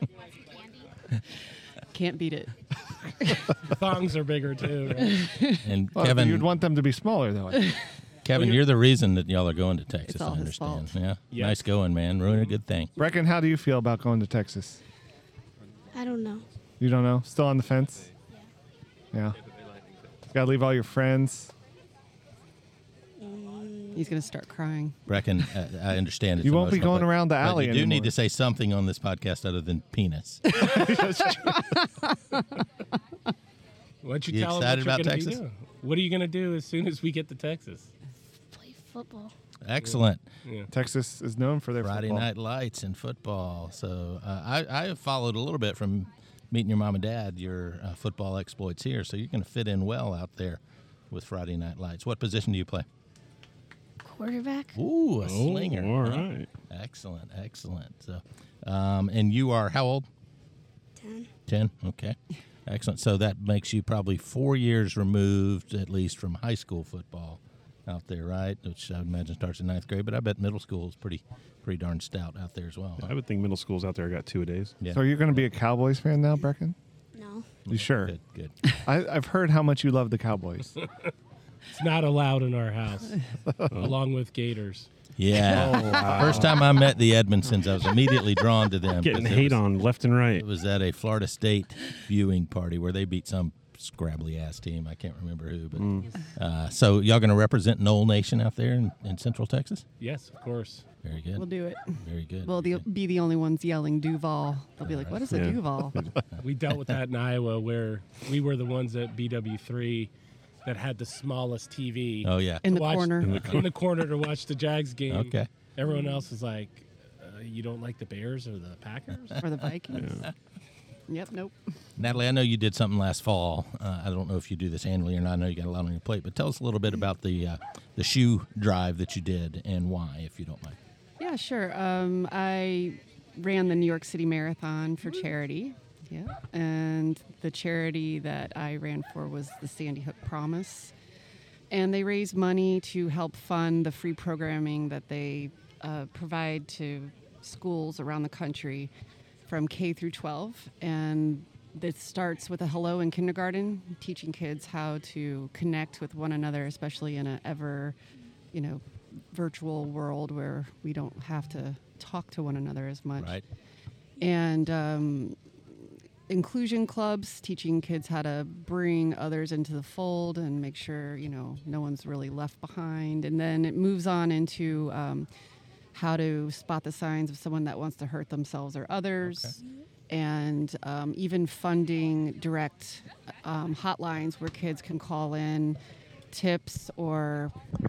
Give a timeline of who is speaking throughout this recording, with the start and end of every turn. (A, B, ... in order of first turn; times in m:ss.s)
0:01.9-0:02.5 A
0:03.7-0:05.3 B
0:05.0-0:05.6 A
0:05.6-0:06.5 C
0:06.0-0:07.7 D
0:08.2-0:12.9 C
0:10.1-0:10.9 A
0:11.3-0:11.7 B
0:13.0-0:14.8 D
0:15.9-0:16.4 E
0:16.8-0:18.1 D
0:19.1-0:19.4 D
0:20.3-0:21.5 D
0:23.2-0:24.2 E
0:23.9-0:25.0 A
0:25.1-0:30.4 C
0:26.4-0:28.1 D
0:30.6-0:31.6 D
0:30.6-0:31.7 A
0:34.0-0:37.9 B
0:34.3-0:35.4 C
0:38.5-0:39.3 E
0:39.6-0:40.2 C
0:40.7-0:42.3 D
0:41.8-0:50.6 C
0:51.1-0:52.9 C
0:54.0-0:54.8 E
0:54.8-1:00.1 C
0:55.2-0:56.5 F
1:01.0-1:01.3 E
1:01.5-1:13.1 C
1:13.0-1:14.8 F
1:14.8-1:15.4 C
1:14.9-1:16.8 D
1:17.2-1:17.5 E
1:17.7-1:18.5 C
1:17.7-1:18.2 D
1:18.8-1:20.7 D
1:21.7-1:23.2 B
1:23.7-1:24.9 B
1:25.2-1:29.6 C
1:25.5-1:26.5 D
1:25.5-1:26.6 F
1:29.0-1:30.5 F
1:30.4-1:39.8 C
1:35.8-1:36.1 F
1:40.0-1:40.8 B
1:41.0-1:41.5 C
1:41.4-1:46.0 A
1:42.0-1:42.8 C
1:44.8-1:45.5 C
1:45.3-1:46.1 F
1:46.4-1:50.1 B
1:50.6-1:59.4 B
1:52.2-1:52.7 C
1:52.6-1:53.5 A
1:53.2-1:53.7 F
1:53.3-1:53.6 C
1:55.1-1:55.5 C
1:59.4-2:00.1 A
1:59.9-2:00.3 F
2:01.1-2:01.6 A
2:02.0-2:10.8 C
2:11.2-2:20.9 A
2:21.7-2:28.9 A
2:29.5-2:38.0 A
2:38.5-2:43.4 A
2:43.2-2:43.4 C
2:44.2-2:45.4 A
2:46.3-2:55.3 A
2:55.9-2:59.6 A
2:59.2-2:59.6 C
3:00.1-3:05.8 A
3:06.3-3:07.6 A